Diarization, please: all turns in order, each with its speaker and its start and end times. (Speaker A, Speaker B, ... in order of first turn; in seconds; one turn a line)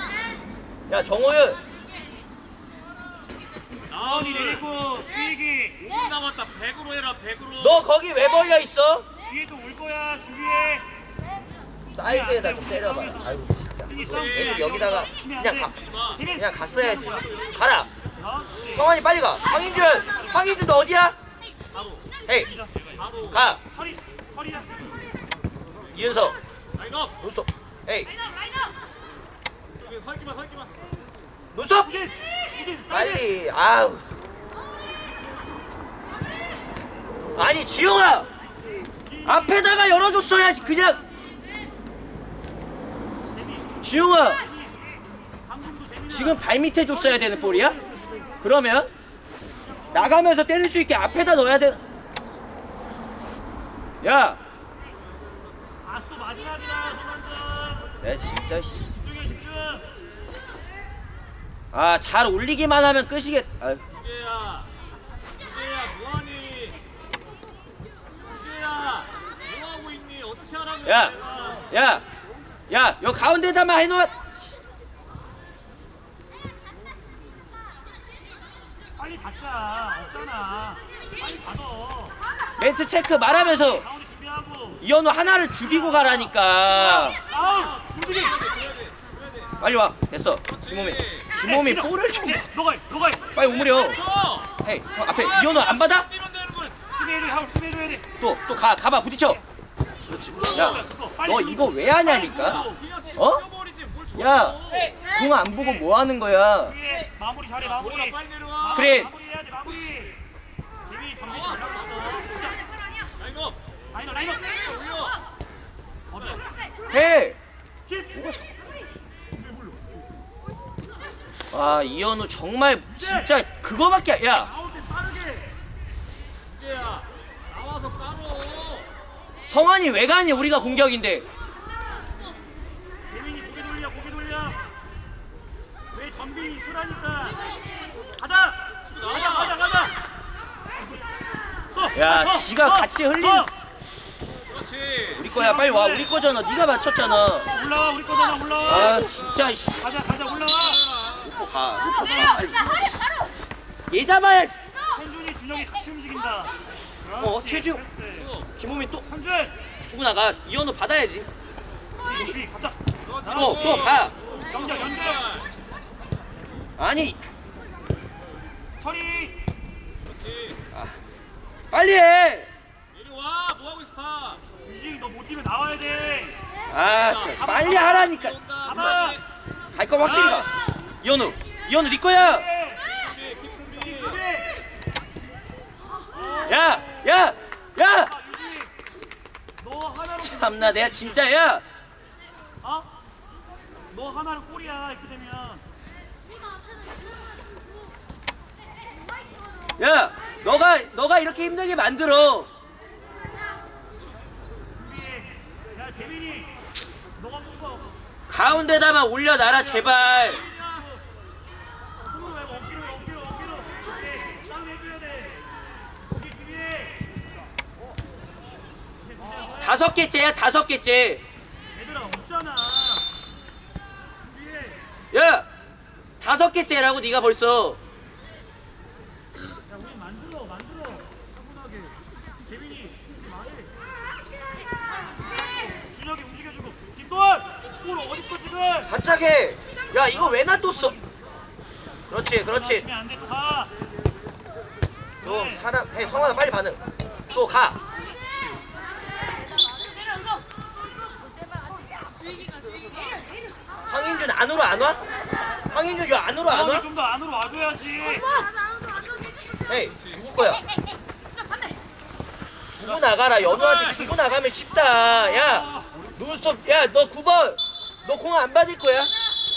Speaker A: 0.9-1.6
Speaker B: 3.9-4.6
Speaker C: 4.0-5.8
Speaker B: 5.8-7.8
Speaker A: 7.6-9.1
Speaker C: 9.2-10.8
Speaker A: 11.9-17.9
Speaker C: 12.0-17.3
Speaker B: 14.0-14.9
Speaker B: 15.8-16.2
Speaker B: 17.0-17.5
Speaker C: 18.2-18.9
Speaker A: 18.7-21.2
Speaker C: 22.4-22.7
Speaker B: 22.9-23.6
Speaker A: 23.3-23.6
Speaker C: 23.7-24.9
Speaker A: 25.9-26.4
Speaker B: 26.8-27.1
Speaker A: 27.2-28.1
Speaker B: 29.8-30.7
Speaker A: 31.5-31.9
Speaker C: 31.8-33.3
Speaker A: 32.9-34.0
Speaker A: 37.4-38.3
Speaker C: 39.0-40.6
Speaker A: 39.2-41.0
Speaker C: 43.3-43.8
Speaker A: 43.8-44.4
Speaker C: 44.4-48.4
Speaker A: 46.1-47.8
Speaker A: 48.4-48.9
Speaker C: 49.6-50.2
Speaker A: 49.9-51.8
Speaker A: 54.0-54.4
Speaker C: 55.8-57.9
Speaker A: 58.0-58.9
Speaker C: 58.9-59.9
Speaker A: 61.7-63.8
Speaker B: 63.9-64.7
Speaker B: 65.4-66.8
Speaker B: 68.2-71.7
Speaker A: 70.8-71.1
Speaker A: 71.7-72.0
Speaker A: 72.7-74.1
Speaker C: 79.0-82.2
Speaker A: 82.6-83.8
Speaker C: 83.3-84.8
Speaker A: 84.8-87.2
Speaker C: 85.6-88.4
Speaker B: 87.3-89.5
Speaker A: 89.6-92.5
Speaker B: 90.5-91.3
Speaker C: 91.4-93.3
Speaker A: 93.3-94.0
Speaker B: 93.4-94.5
Speaker A: 94.6-96.1
Speaker B: 95.1-96.8
Speaker C: 96.9-98.0
Speaker A: 98.2-99.4
Speaker A: 100.1-103.4
Speaker C: 100.3-102.8
Speaker B: 102.3-105.0
Speaker A: 104.1-106.8
Speaker C: 106.7-110.2
Speaker B: 107.7-108.9
Speaker A: 108.7-109.1
Speaker C: 110.8-112.6
Speaker B: 113.2-113.5
Speaker C: 113.9-114.5
Speaker B: 114.4-115.2
Speaker C: 116.1-116.4
Speaker A: 116.9-117.4
Speaker A: 118.1-118.5
Speaker A: 121.5-124.5
Speaker C: 123.0-123.3
Speaker C: 124.5-125.5
Speaker B: 126.5-128.9
Speaker A: 129.5-131.3
Speaker C: 133.1-134.6
Speaker C: 135.9-137.5
Speaker C: 138.1-139.9
Speaker B: 138.9-139.6
Speaker C: 141.7-143.5
Speaker A: 141.9-143.5
Speaker B: 144.5-145.2
Speaker A: 145.1-147.5
Speaker C: 145.2-146.1
Speaker C: 147.5-149.0
Speaker A: 148.6-149.8
Speaker B: 148.9-149.5
Speaker C: 149.8-150.8
Speaker B: 150.9-151.2
Speaker A: 151.2-152.9
Speaker C: 152.0-152.3
Speaker A: 153.9-154.5
Speaker C: 154.9-158.3
Speaker A: 157.2-157.8
Speaker B: 158.2-158.4
Speaker A: 158.6-159.1
Speaker C: 159.1-159.5
Speaker A: 159.8-161.3
Speaker C: 162.0-163.8
Speaker B: 163.1-165.4
Speaker A: 163.3-164.1
Speaker C: 164.5-165.2
Speaker A: 166.8-167.2
Speaker C: 168.8-169.4
Speaker B: 170.0-170.6
Speaker A: 171.7-172.5
Speaker B: 172.9-174.4
Speaker C: 174.6-176.4
Speaker A: 176.7-179.0
Speaker B: 177.0-179.2
Speaker C: 177.4-178.2
Speaker C: 178.7-179.2
Speaker A: 179.7-182.5
Speaker C: 180.2-180.4
Speaker C: 182.1-182.8
Speaker B: 182.9-184.2
Speaker C: 183.8-184.5
Speaker C: 186.1-187.0
Speaker A: 186.4-188.2
Speaker C: 188.0-188.7
Speaker C: 189.6-191.2
Speaker A: 190.2-191.6
Speaker C: 192.6-192.9
Speaker C: 193.9-195.6
Speaker A: 199.8-202.5
Speaker C: 204.8-206.5
Speaker C: 207.2-207.9
Speaker A: 208.3-210.4
Speaker C: 209.5-211.0
Speaker C: 212.0-215.5
Speaker C: 216.1-217.0
Speaker C: 219.0-219.8
Speaker A: 219.5-221.2
Speaker C: 221.7-223.1
Speaker C: 224.2-224.8
Speaker A: 225.1-225.5
Speaker A: 226.2-227.8
Speaker C: 229.6-233.7
Speaker C: 235.2-238.9
Speaker A: 238.9-241.0
Speaker C: 240.3-241.1
Speaker A: 242.1-242.9
Speaker C: 242.5-243.7
Speaker C: 245.2-245.6
Speaker A: 245.2-247.8
Speaker A: 253.9-255.0
Speaker A: 255.7-256.9
Speaker C: 256.5-258.3
Speaker A: 259.7-260.6
Speaker A: 262.7-269.1
Speaker B: 263.5-264.1
Speaker C: 265.4-265.9